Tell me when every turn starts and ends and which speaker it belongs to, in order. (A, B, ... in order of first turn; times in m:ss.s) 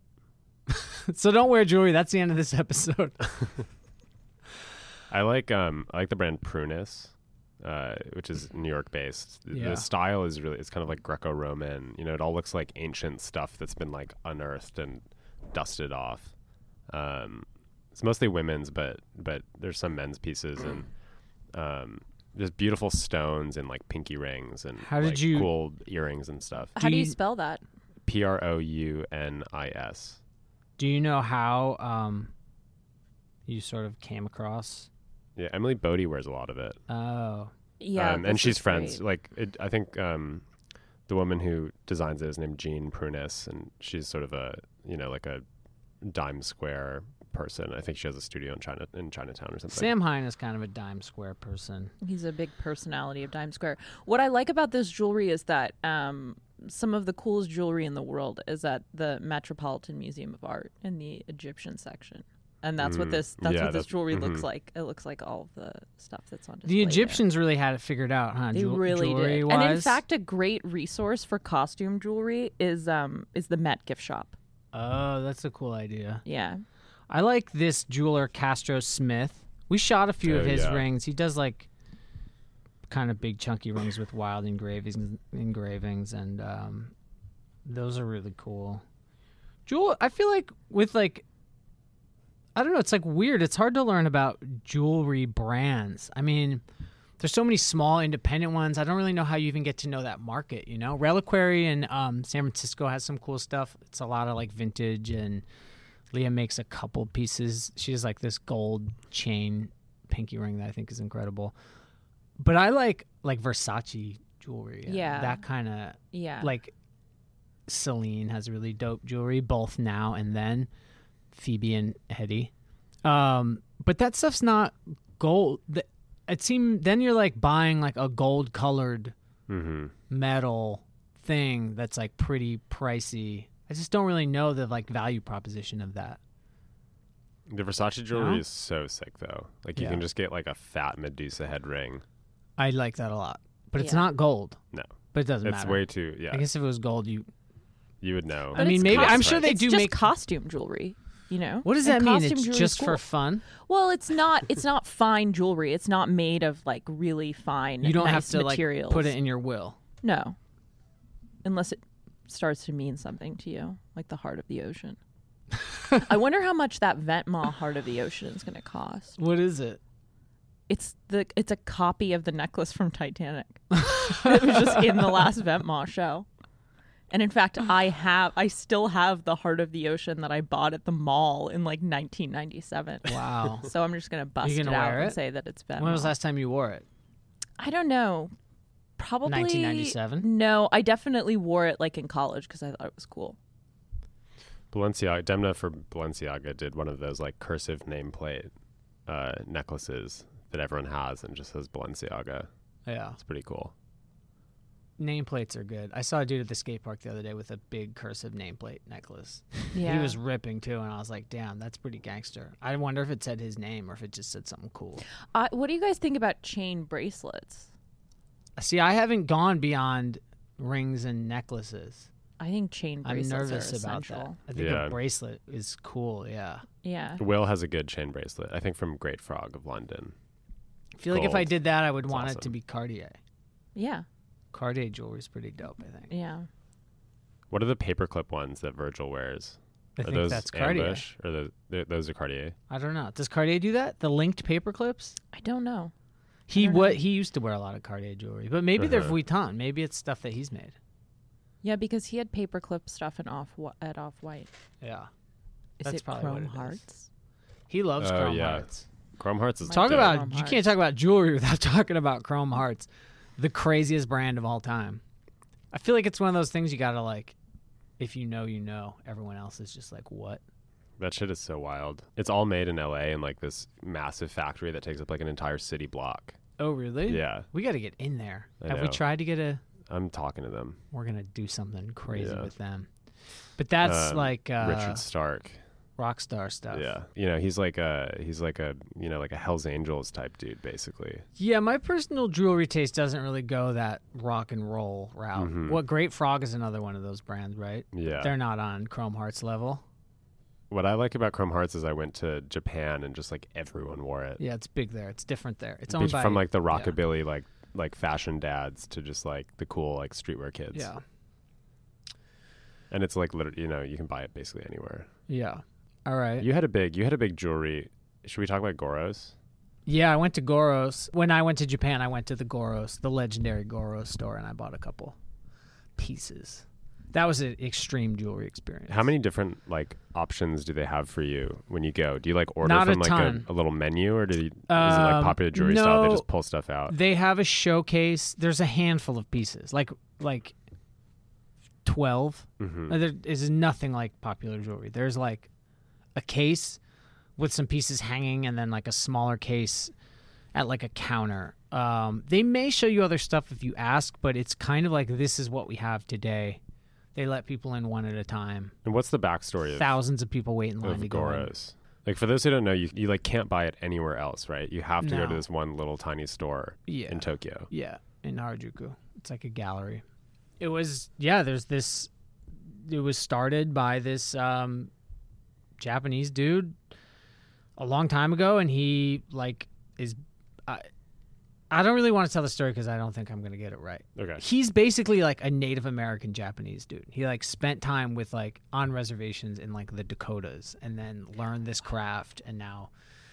0:00.7-0:03.6 A
0:05.1-0:16.3 B
0:09.5-0:09.9 A
0:16.9-0:20.9 B
0:21.5-0:26.8 B
0:24.8-0:25.5 A
0:26.8-0:27.6 C
0:26.8-0:27.2 A
0:28.0-0:30.2 B
0:30.8-0:32.3 A
0:33.5-0:34.9 A
0:35.4-0:36.8 B
0:36.9-0:37.5 A
0:37.8-0:39.0 C
0:38.0-0:40.5 B
0:41.1-0:45.4 B
0:46.0-0:49.9 B
0:49.7-0:51.9 A
0:52.0-1:07.2 C
1:02.8-1:04.4 B
1:06.7-1:10.0 A
1:08.5-1:14.4 C
1:14.7-1:16.2 A
1:16.2-1:16.6 C
1:17.1-1:21.7 A
1:20.2-1:20.9 B
1:22.9-1:26.9 A
1:27.6-1:28.8 A
1:29.7-1:31.2 A
1:32.6-1:36.6 A
1:37.2-1:45.4 A
1:46.1-1:51.6 A
1:52.4-1:56.7 A
1:54.9-1:55.4 C
1:56.1-1:56.5 C
1:57.7-2:00.7 A
2:01.3-2:02.5 A
2:03.0-2:09.1 A
2:09.5-2:09.9 B
2:10.1-2:16.2 A
2:17.5-2:22.0 B
2:18.1-2:18.4 A
2:19.8-2:20.0 A
2:22.6-2:24.6 A
2:23.8-2:24.1 C
2:24.7-2:26.5 B
2:25.1-2:27.3 A
2:28.0-2:29.5 B
2:28.6-2:30.1 A
2:28.6-2:39.1 C
2:31.6-2:33.5 A
2:37.8-2:39.8 A
2:40.0-2:40.4 C
2:41.4-2:45.0 C
2:45.9-2:49.2 C
2:49.2-2:49.8 A
2:50.7-2:56.3 C
2:53.8-2:54.9 A
2:57.1-3:06.1 C
3:03.0-3:03.7 A
3:04.4-3:05.2 A
3:05.8-3:06.8 A
3:07.6-3:08.3 C
3:09.0-3:13.4 C
3:09.3-3:10.3 A
3:14.7-3:18.5 B
3:19.1-3:22.5 B
3:22.9-3:23.2 A
3:23.2-3:23.7 B
3:25.0-3:35.0 A
3:29.7-3:30.2 C
3:35.3-3:37.7 C
3:38.6-3:42.1 A
3:42.4-3:44.4 C
3:43.0-3:46.6 A
3:44.6-3:45.0 B
3:46.8-3:47.2 C
3:47.2-3:50.2 B
3:51.0-3:53.2 A
3:51.1-3:51.6 B
3:52.1-3:52.5 B
3:53.8-3:54.1 C
3:54.5-3:56.1 A
3:56.1-3:56.5 C
3:57.5-4:02.6 B
4:00.0-4:01.1 A
4:02.7-4:05.2 A
4:05.3-4:05.9 C
4:06.5-4:10.8 A
4:06.6-4:07.0 C
4:08.8-4:09.2 B
4:11.6-4:14.5 C
4:14.8-4:15.1 A
4:15.8-4:16.8 A
4:15.8-4:17.1 C
4:17.7-4:18.9 A
4:18.0-4:20.2 B
4:19.6-4:20.7 C
4:19.7-4:25.0 A
4:25.7-4:27.4 A
4:28.0-4:30.4 A
4:31.0-4:36.4 B
4:36.6-4:39.6 A
4:37.1-4:37.5 B
4:38.6-4:39.0 B
4:39.9-4:40.8 B
4:40.9-4:42.9 A
4:42.1-4:42.5 B
4:43.6-4:45.0 A
4:43.8-4:45.6 B
4:46.0-4:46.9 A
4:46.7-4:51.2 B
4:51.4-4:59.8 A
4:55.4-4:55.8 B
4:57.9-4:58.3 B
5:00.7-5:04.4 B
5:04.4-5:07.0 A
5:05.9-5:10.9 B
5:10.7-5:11.0 A
5:12.9-5:15.1 B
5:15.3-5:16.5 A
5:16.4-5:19.4 B
5:19.9-5:25.2 A
5:26.0-5:29.1 A
5:28.9-5:37.0 B
5:32.6-5:33.5 A
5:34.7-5:36.3 A
5:36.9-5:40.5 A
5:41.8-5:45.5 A
5:42.6-5:43.0 B
5:46.2-5:46.8 A
5:47.4-5:49.9 A
5:50.5-5:56.6 A
5:57.2-5:58.7 A
5:58.8-6:00.0 B
5:59.7-6:01.5 A
6:00.8-6:07.7 B
6:05.0-6:05.4 A
6:06.9-6:10.0 A
6:10.6-6:14.9 A
6:15.8-6:16.8 A
6:17.8-6:20.9 A
6:21.7-6:32.9 A
6:24.2-6:24.4 B